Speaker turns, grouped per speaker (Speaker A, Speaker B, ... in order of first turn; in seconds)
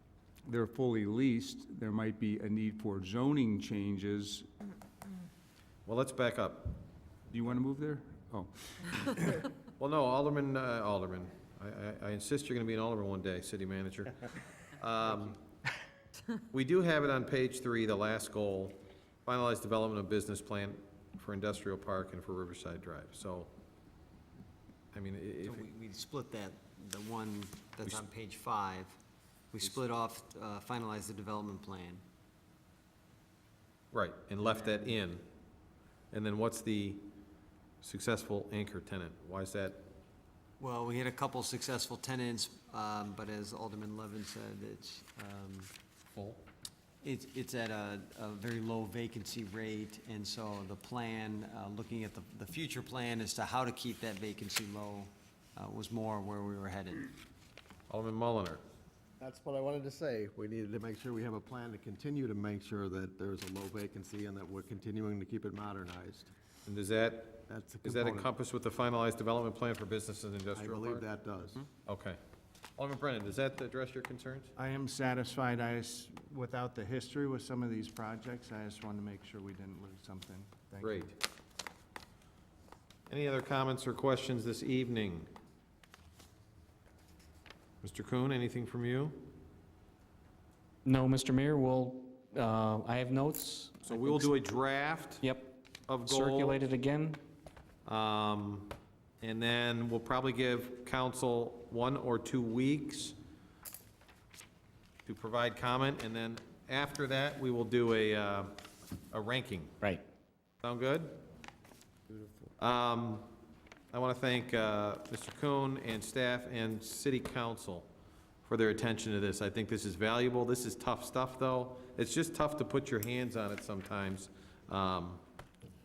Speaker A: 0.5-4.5, 7.3-9.5
Speaker B: 5.9-6.8, 9.8-14.1, 14.8-15.4, 16.5-23.5, 24.9-25.7, 33.9-35.2, 36.1-37.1, 37.8-39.9, 46.1-46.4, 57.9-58.6, 66.7-71.1, 71.8-72.2, 72.8-74.5, 80.8-81.1, 83.1-85.3, 87.8-89.3, 93.8-95.3, 95.9-96.6, 97.9-103.2, 105.1-108.6, 109.1-109.8, 110.6-111.2, 112.6-113.3, 113.9-117.9, 118.5-125.2
Speaker C: 25.4-29.0, 29.5-32.0, 34.4-34.9, 40.6-45.7, 47.0-57.1
Speaker D: 59.2-66.3, 67.5-68.3, 70.5-71.7
Speaker E: 74.6-81.2
Speaker F: 90.8-94.3, 95.2-97.2